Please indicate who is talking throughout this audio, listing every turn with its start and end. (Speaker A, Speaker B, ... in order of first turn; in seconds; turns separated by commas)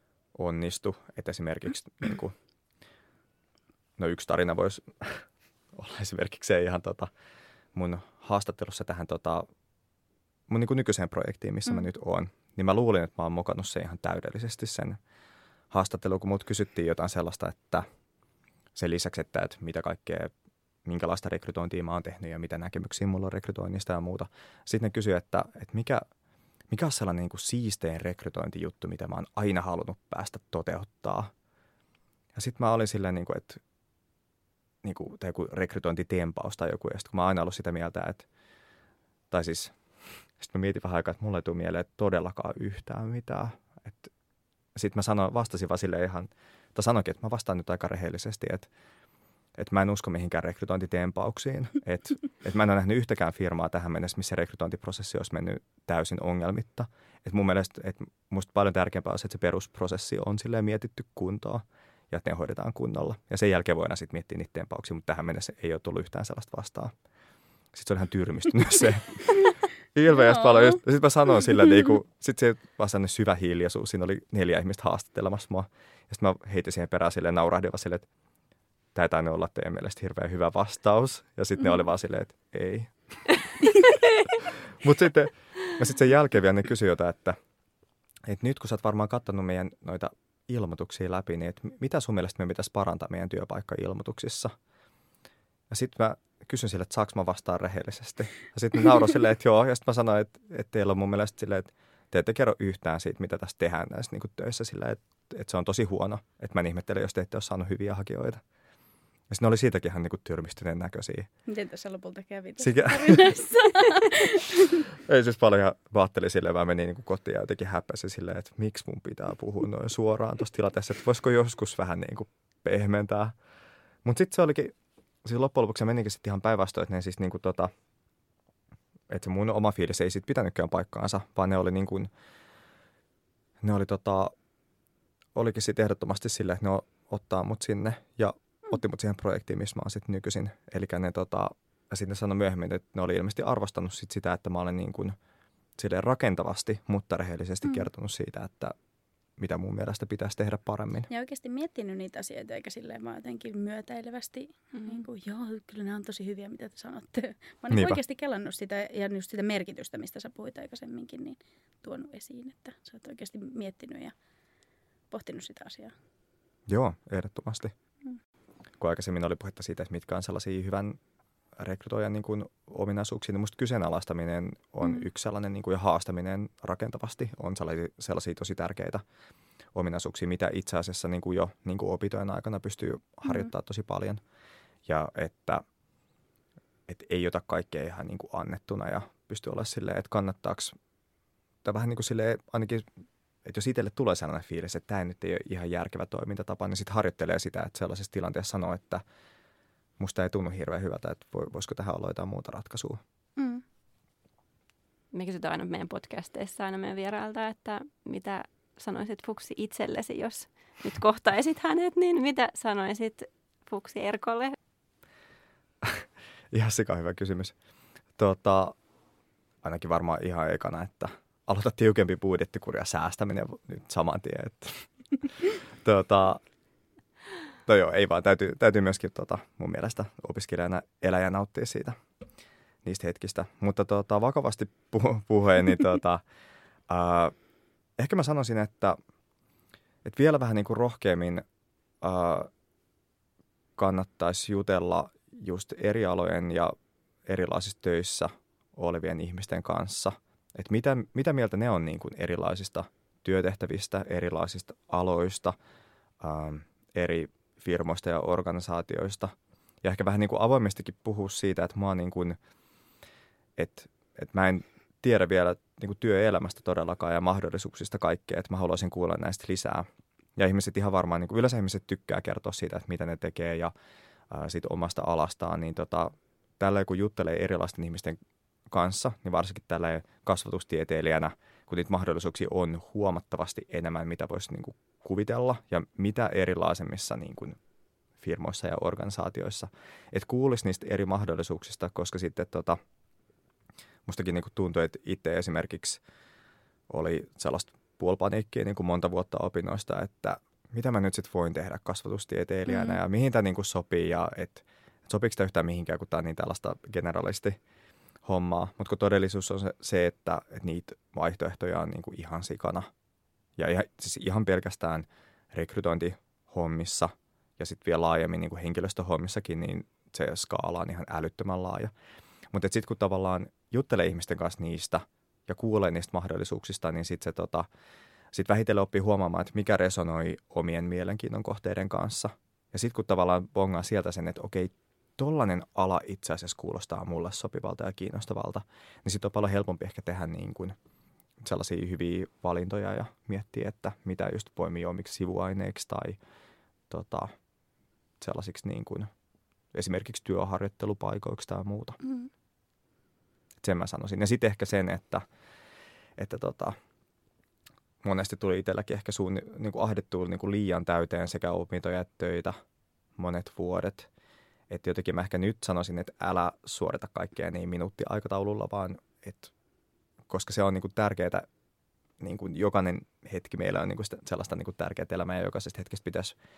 Speaker A: 0.4-2.3, Speaker A: 4.0-7.1, Speaker A: 7.7-9.5, Speaker A: 10.5-15.0, Speaker A: 15.7-17.9, Speaker A: 18.8-20.3, Speaker A: 20.9-26.1, Speaker A: 26.7-31.3, Speaker A: 32.4-33.6, Speaker A: 34.8-38.3, Speaker A: 39.3-44.1, Speaker A: 44.8-48.7, Speaker A: 49.6-66.9, Speaker A: 67.7-78.1, Speaker B: 70.1-70.8, Speaker A: 78.9-82.9, Speaker A: 84.5-87.4, Speaker A: 88.3-94.5, Speaker A: 95.7-108.4, Speaker A: 109.3-111.3, Speaker B: 111.5-114.8, Speaker A: 112.6-113.4, Speaker A: 114.8-123.4, Speaker A: 124.0-127.7, Speaker A: 129.1-132.1, Speaker A: 133.6-134.3, Speaker A: 135.3-145.2, Speaker A: 145.8-148.7, Speaker A: 149.4-151.1, Speaker B: 151.1-164.1, Speaker A: 157.7-158.0, Speaker B: 165.1-165.9, Speaker A: 166.7-167.7, Speaker A: 168.8-171.0, Speaker A: 171.6-179.0, Speaker A: 179.8-184.2, Speaker A: 184.9-185.6, Speaker A: 186.9-190.8, Speaker A: 191.6-192.9, Speaker A: 193.4-199.0, Speaker A: 200.0-203.0, Speaker B: 203.4-203.6, Speaker C: 205.1-214.6, Speaker A: 215.8-217.5, Speaker A: 218.2-218.8, Speaker A: 219.6-226.4, Speaker A: 227.7-232.0, Speaker A: 232.8-236.2, Speaker A: 236.9-237.3, Speaker A: 238.0-239.0, Speaker A: 240.1-241.4, Speaker A: 242.0-242.5, Speaker A: 243.8-246.8, Speaker A: 247.3-255.6, Speaker A: 256.2-262.4, Speaker A: 263.6-273.7, Speaker A: 274.3-278.2, Speaker A: 278.7-287.6, Speaker A: 288.2-292.8, Speaker A: 294.1-296.0, Speaker A: 296.9-307.6, Speaker B: 302.7-303.0, Speaker A: 308.2-312.9, Speaker A: 313.6-321.9, Speaker A: 322.5-327.7, Speaker A: 328.3-340.8, Speaker A: 341.4-346.2, Speaker A: 346.9-347.3, Speaker A: 348.2-349.1, Speaker A: 349.7-352.0, Speaker B: 352.0-352.3, Speaker A: 353.6-355.2, Speaker A: 356.2-356.8, Speaker A: 358.0-362.6, Speaker A: 363.2-364.1, Speaker A: 364.7-369.5, Speaker A: 370.3-371.4, Speaker A: 372.2-376.4